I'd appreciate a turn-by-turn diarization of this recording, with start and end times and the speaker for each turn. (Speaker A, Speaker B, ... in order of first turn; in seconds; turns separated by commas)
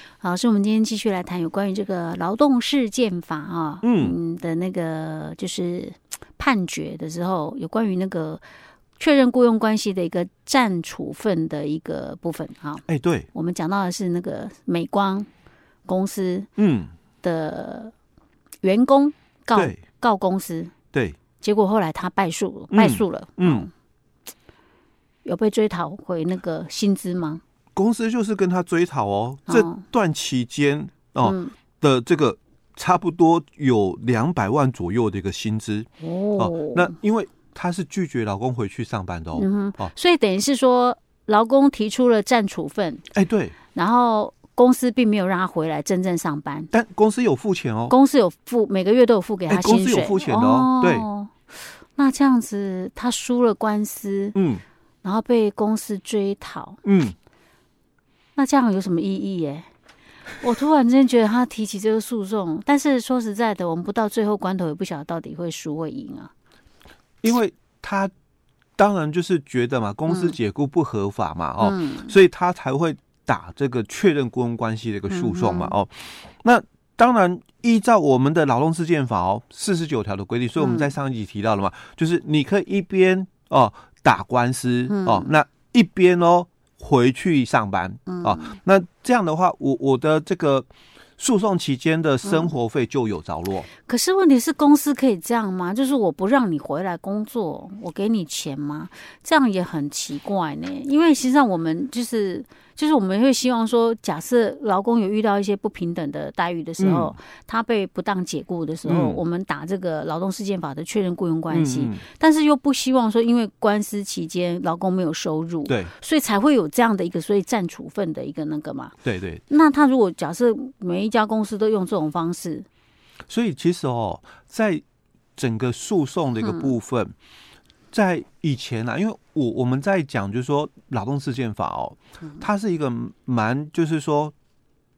Speaker A: 0.2-8.4, Speaker B: 3.8-4.2, Speaker A: 9.0-12.8, Speaker B: 12.9-13.3, Speaker A: 13.3-15.3, Speaker A: 15.9-16.5, Speaker B: 16.6-16.9, Speaker A: 17.2-17.9, Speaker A: 18.6-20.7, Speaker B: 19.5-19.8, Speaker A: 21.4-23.7, Speaker B: 22.7-23.7, Speaker A: 25.2-27.4, Speaker B: 27.8-39.9, Speaker A: 29.5-29.8, Speaker A: 31.2-31.6, Speaker A: 36.0-36.9, Speaker A: 39.3-43.0, Speaker B: 43.1-43.5, Speaker A: 43.7-46.7, Speaker B: 46.7-47.9, Speaker A: 47.9-51.3, Speaker B: 49.5-51.1, Speaker A: 52.0-54.4, Speaker B: 54.4-54.6, Speaker A: 55.0-56.8, Speaker B: 56.8-57.1, Speaker A: 58.4-59.7, Speaker A: 60.4-66.3, Speaker B: 67.2-68.1, Speaker B: 68.8-90.7, Speaker A: 70.1-70.3, Speaker A: 71.6-72.1, Speaker A: 75.1-75.8, Speaker A: 80.6-80.9, Speaker A: 84.9-85.3, Speaker A: 88.1-88.5, Speaker B: 91.2-93.7, Speaker A: 92.2-92.5, Speaker A: 93.8-122.7, Speaker B: 106.8-107.2, Speaker B: 108.8-109.2, Speaker B: 111.5-112.0, Speaker B: 115.7-115.9, Speaker B: 119.0-119.4, Speaker B: 123.3-124.8, Speaker B: 125.4-127.1, Speaker A: 126.4-126.7, Speaker B: 127.9-134.3